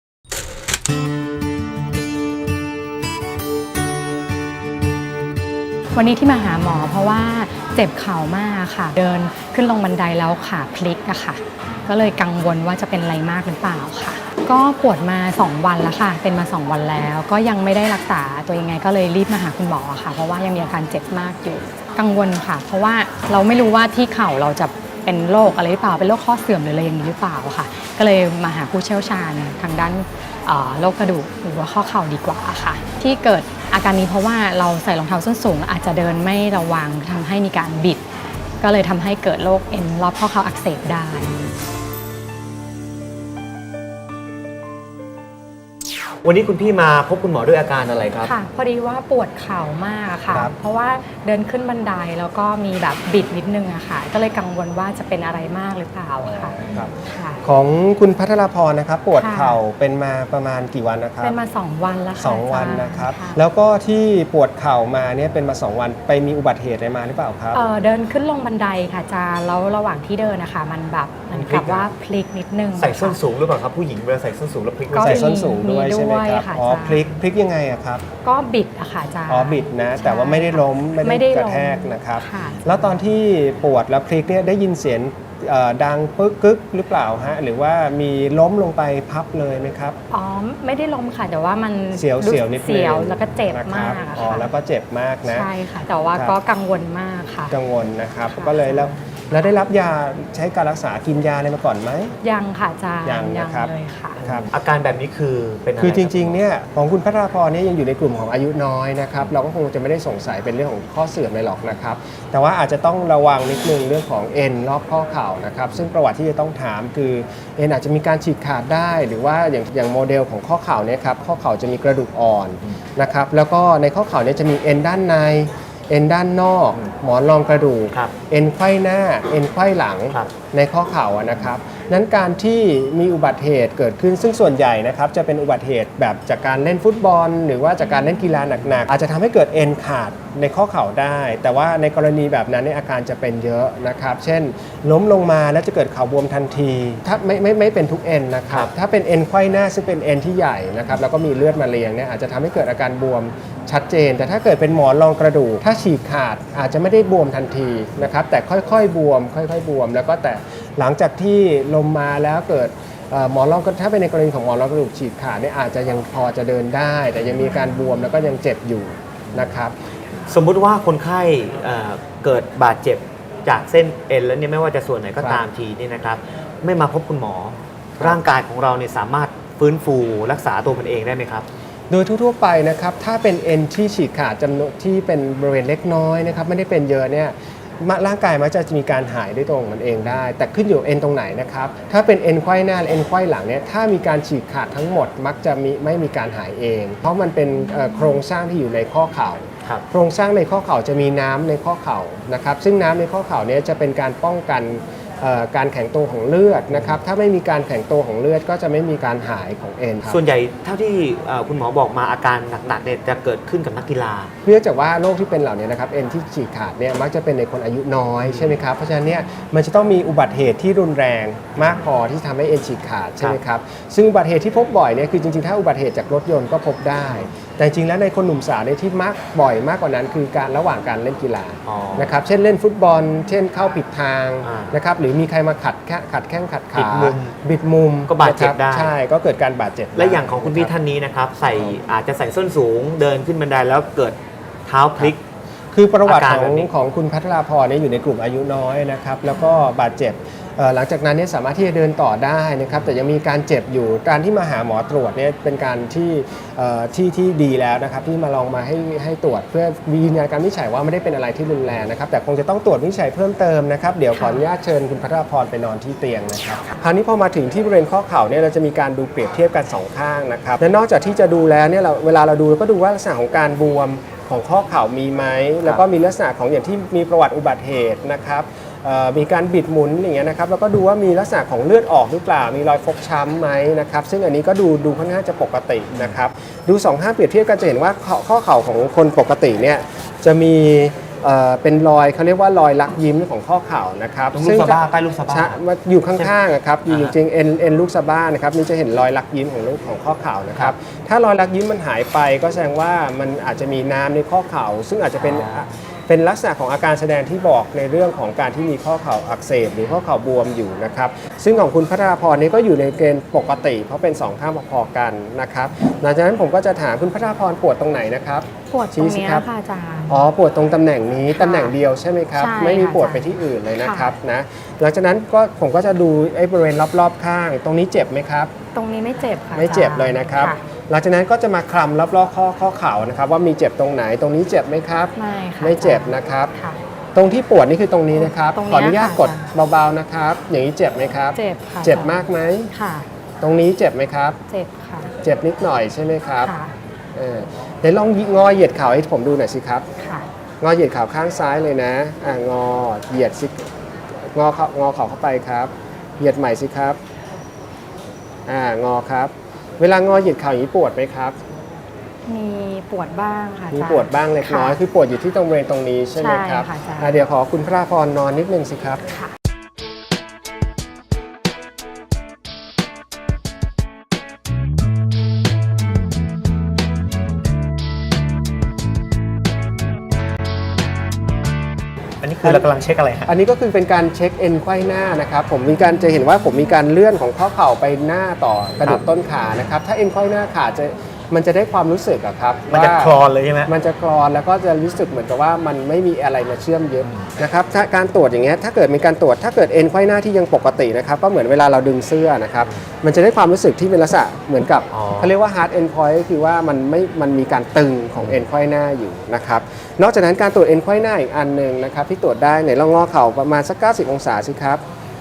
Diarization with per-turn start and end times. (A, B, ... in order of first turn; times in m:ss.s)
0:05.9-0:38.0 A
0:38.6-0:41.4 A
0:46.2-0:48.3 B
0:48.2-0:57.4 A
0:56.2-1:01.4 C
0:59.2-0:59.6 A
1:01.2-1:03.4 A
1:02.2-1:07.6 C
1:07.5-1:13.2 A
1:11.3-1:11.9 B
1:12.8-1:15.3 B
1:14.9-1:17.2 A
1:14.9-1:18.0 C
1:18.2-1:22.9 A
1:19.3-1:30.0 C
1:30.1-1:34.5 A
1:31.9-1:35.5 C
1:35.2-1:37.5 A
1:37.5-1:42.1 C
1:38.3-1:39.0 A
1:42.2-1:44.2 A
1:43.0-1:44.5 C
1:44.2-1:46.4 B
1:45.8-2:49.7 C
2:50.2-3:01.4 B
3:01.9-3:30.2 C
3:30.1-3:34.3 B
3:34.4-4:00.7 C
3:51.6-3:52.1 B
3:54.4-3:54.7 B
3:56.7-3:57.4 B
3:58.1-3:58.9 B
3:59.9-4:05.2 B
4:05.7-5:19.4 C
4:06.0-4:06.7 B
4:24.1-4:24.4 A
4:54.3-4:55.6 B
4:56.9-4:57.1 B
5:05.3-5:05.6 B
5:18.7-5:20.3 A
5:20.1-5:28.5 C
5:21.3-5:21.8 A
5:22.4-5:23.3 A
5:23.8-5:24.1 A
5:28.7-5:30.6 A
5:29.6-5:36.5 C
5:35.2-5:36.8 A
5:37.1-5:42.7 C
5:38.2-5:39.5 A
5:41.3-5:43.1 A
5:43.4-5:44.4 C
5:44.5-5:45.1 A
5:45.2-5:46.5 C
5:46.4-5:46.7 A
5:47.1-5:49.8 C
5:50.0-5:50.3 A
5:50.6-5:53.7 C
5:54.3-5:57.0 C
5:58.5-6:01.4 C
6:02.3-6:04.8 A
6:03.7-6:09.1 C
6:06.2-6:07.2 A
6:22.2-6:23.3 B
6:23.3-6:54.8 C
6:32.7-6:33.7 B
6:44.9-6:45.3 B